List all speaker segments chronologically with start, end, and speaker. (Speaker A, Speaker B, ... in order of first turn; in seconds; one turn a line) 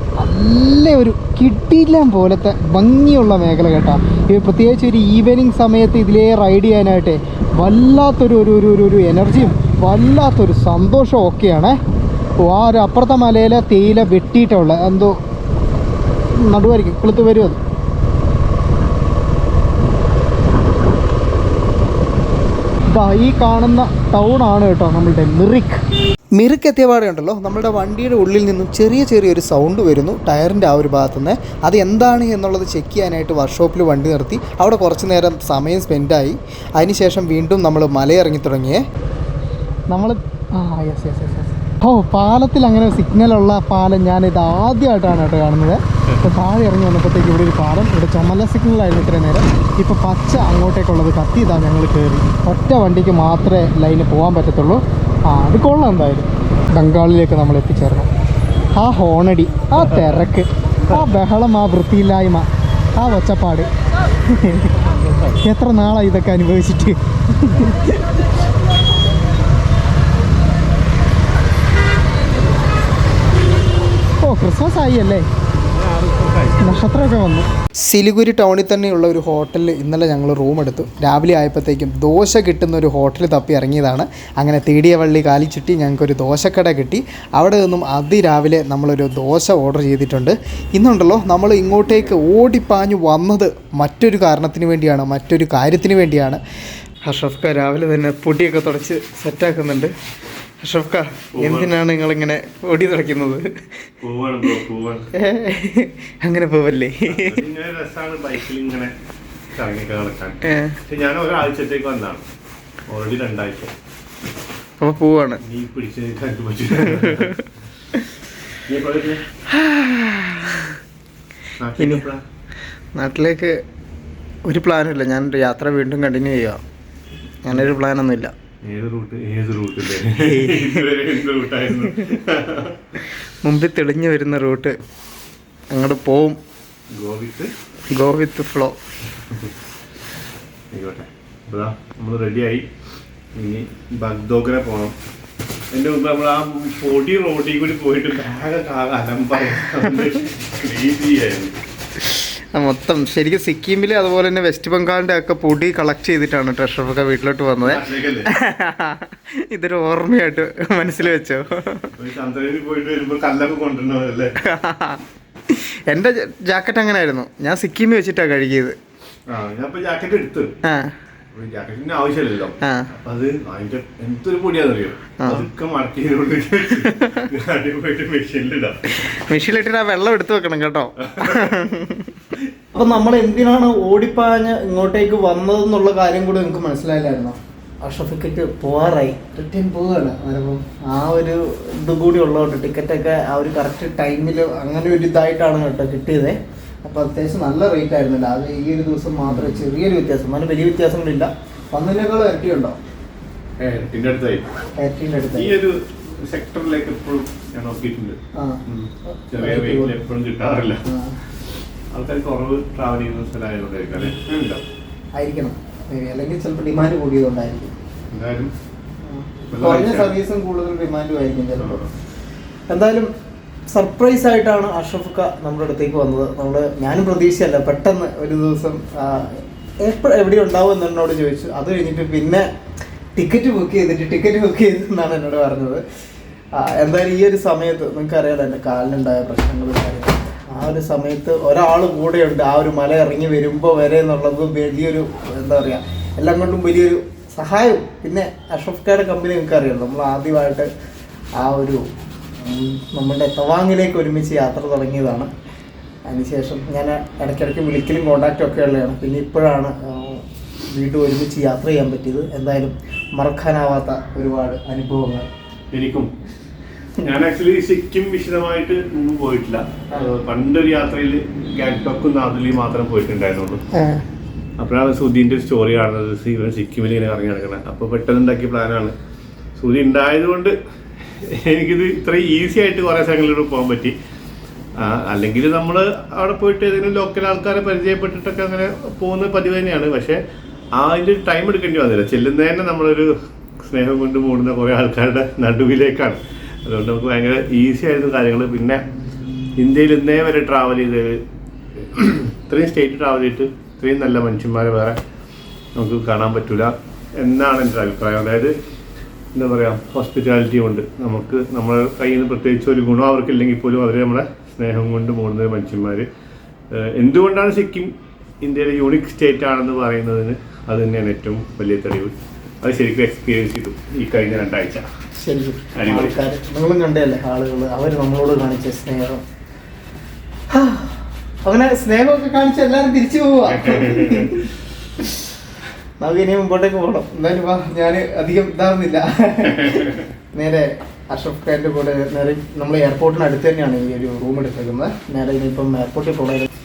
Speaker A: 0.2-11.8
Speaker A: 12.4-15.2
Speaker A: 16.3-17.6
Speaker A: 22.9-25.8
Speaker A: 26.4-38.8
Speaker A: 39.9-58.1
Speaker A: 58.8-63.7
Speaker A: 64.3-64.8
Speaker B: 65.1-65.3
Speaker A: 65.4-68.2
Speaker A: 74.2-75.3
Speaker B: 75.7-76.8
Speaker A: 76.6-96.4
Speaker A: 97.0-99.9
Speaker A: 100.6-103.4
Speaker B: 101.3-101.7
Speaker B: 104.0-105.1
Speaker A: 105.2-107.4
Speaker B: 107.0-108.9
Speaker B: 109.5-112.2
Speaker A: 110.4-110.8
Speaker B: 112.9-113.7
Speaker A: 114.8-115.4
Speaker B: 115.4-117.4
Speaker A: 116.9-117.3
Speaker B: 118.7-119.2
Speaker A: 119.5-120.7
Speaker B: 121.6-122.2
Speaker A: 121.8-122.1
Speaker A: 123.0-123.6
Speaker A: 124.5-126.6
Speaker A: 127.4-128.3
Speaker B: 128.6-132.9
Speaker A: 130.2-130.9
Speaker A: 133.4-134.7
Speaker A: 135.7-136.4
Speaker B: 136.9-137.5
Speaker A: 137.9-138.8
Speaker B: 139.3-139.5
Speaker B: 140.7-142.6
Speaker B: 143.3-144.9
Speaker B: 145.7-151.6
Speaker A: 152.5-161.9
Speaker B: 157.7-158.3
Speaker B: 161.9-164.3
Speaker A: 164.4-165.0
Speaker A: 165.5-168.8
Speaker B: 169.3-170.5
Speaker A: 170.6-170.9
Speaker B: 171.3-178.9
Speaker A: 172.6-172.9
Speaker A: 175.2-175.4
Speaker A: 176.9-177.3
Speaker A: 178.9-182.2
Speaker B: 181.0-181.5
Speaker A: 182.7-202.8
Speaker B: 199.3-199.7
Speaker B: 203.6-204.4
Speaker A: 204.8-205.5
Speaker B: 205.3-210.8
Speaker A: 208.3-210.0
Speaker A: 210.8-211.2
Speaker B: 211.9-214.6
Speaker A: 215.2-217.7
Speaker B: 218.1-218.5
Speaker A: 219.1-221.9
Speaker B: 219.5-220.1
Speaker B: 221.6-221.9
Speaker A: 222.7-223.1
Speaker A: 223.7-232.5
Speaker A: 233.2-235.8
Speaker A: 236.6-250.7
Speaker A: 251.4-251.8
Speaker A: 252.4-255.3
Speaker A: 256.1-265.3
Speaker B: 265.7-266.1
Speaker B: 267.0-273.6
Speaker A: 273.7-274.0
Speaker B: 274.6-278.9
Speaker B: 279.6-280.5
Speaker B: 281.2-283.9
Speaker B: 284.8-290.2
Speaker B: 290.8-298.8
Speaker B: 299.6-301.2
Speaker B: 301.8-305.0
Speaker B: 305.8-308.5
Speaker B: 309.3-316.1
Speaker B: 316.7-317.9
Speaker B: 318.4-324.9
Speaker A: 325.2-329.2
Speaker B: 325.8-326.2
Speaker A: 330.5-334.5
Speaker B: 333.5-334.4
Speaker A: 336.0-346.5
Speaker B: 339.5-340.0